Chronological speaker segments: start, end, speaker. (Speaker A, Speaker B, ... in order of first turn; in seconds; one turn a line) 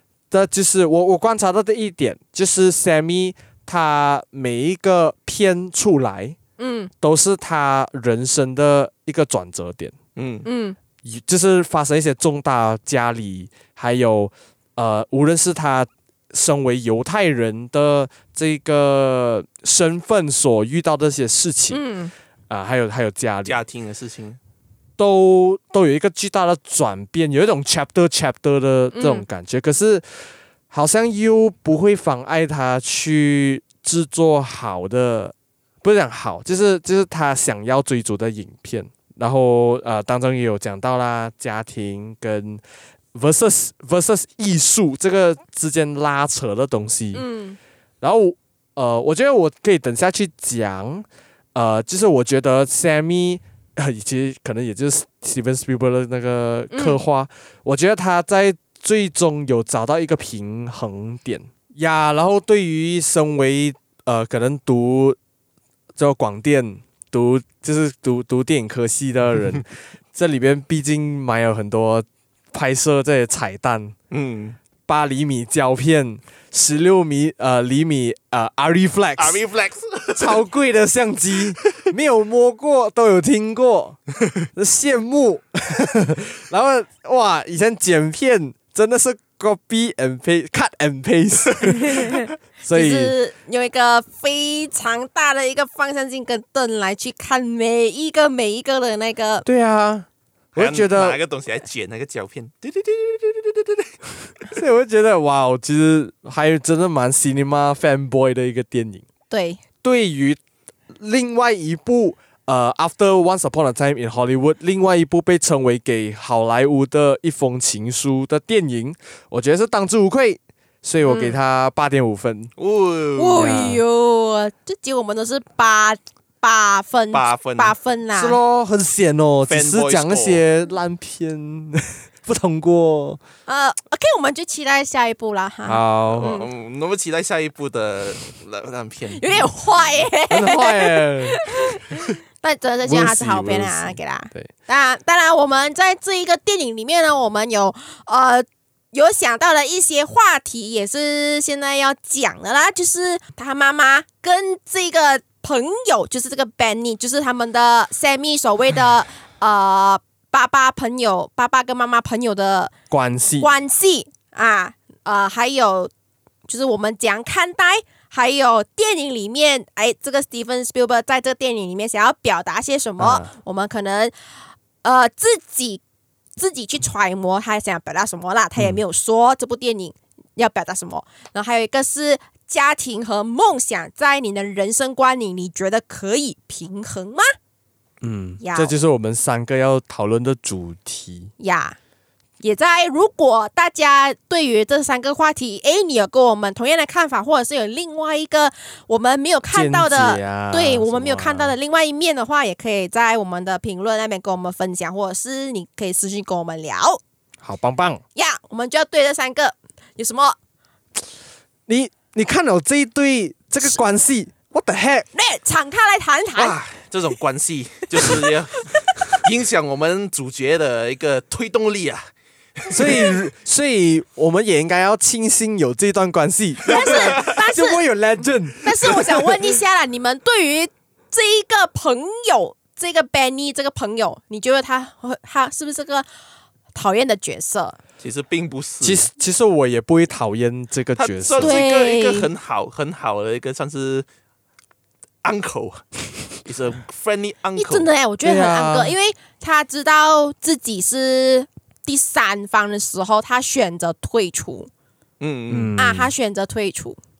Speaker A: 0.3-6.4
Speaker B: 6.6-6.9
Speaker A: 7.0-9.9
Speaker C: 10.2-10.5
Speaker B: 10.4-10.8
Speaker A: 11.0-21.8
Speaker B: 21.7-22.1
Speaker A: 22.5-23.6
Speaker C: 23.4-24.4
Speaker A: 25.0-30.1
Speaker B: 28.9-29.3
Speaker A: 30.7-42.6
Speaker A: 43.1-47.2
Speaker B: 47.1-47.6
Speaker A: 48.0-65.2
Speaker B: 56.7-57.0
Speaker A: 66.0-74.0
Speaker C: 74.1-74.6
Speaker A: 74.9-79.4
Speaker C: 79.2-80.4
Speaker A: 80.2-84.0
Speaker A: 84.5-93.2
Speaker B: 91.7-99.5
Speaker A: 99.5-101.2
Speaker C: 100.5-104.0
Speaker A: 104.5-109.0
Speaker B: 109.3-109.6
Speaker A: 109.8-110.4
Speaker A: 110.9-122.5
Speaker B: 121.1-121.4
Speaker C: 122.6-123.7
Speaker B: 123.2-128.4
Speaker A: 123.4-123.8
Speaker C: 127.1-127.8
Speaker A: 128.2-133.2
Speaker C: 129.5-130.4
Speaker B: 133.5-136.5
Speaker A: 135.7-136.3
Speaker C: 136.1-139.5
Speaker B: 139.1-162.7
Speaker A: 140.3-141.4
Speaker A: 142.8-144.5
Speaker A: 162.9-163.5
Speaker B: 163.4-165.9
Speaker B: 166.5-174.1
Speaker A: 173.0-173.3
Speaker B: 174.8-175.8
Speaker B: 176.4-187.3
Speaker A: 188.0-191.3
Speaker B: 188.4-188.7
Speaker B: 191.4-191.8
Speaker B: 192.4-207.0
Speaker A: 199.5-201.5
Speaker A: 207.4-208.0
Speaker B: 208.2-210.4
Speaker A: 211.7-215.1
Speaker B: 215.1-216.6
Speaker C: 216.4-223.1
Speaker B: 218.0-218.8
Speaker A: 222.7-229.5
Speaker B: 226.7-227.8
Speaker C: 226.8-227.3
Speaker B: 228.6-236.1
Speaker B: 236.8-237.8
Speaker C: 238.0-239.1
Speaker A: 238.8-241.7
Speaker C: 241.0-244.1
Speaker B: 241.4-242.3
Speaker C: 245.2-245.8
Speaker C: 246.3-247.9
Speaker B: 247.6-254.7
Speaker A: 248.2-248.9
Speaker C: 255.2-255.8
Speaker A: 255.5-256.1
Speaker B: 255.8-257.0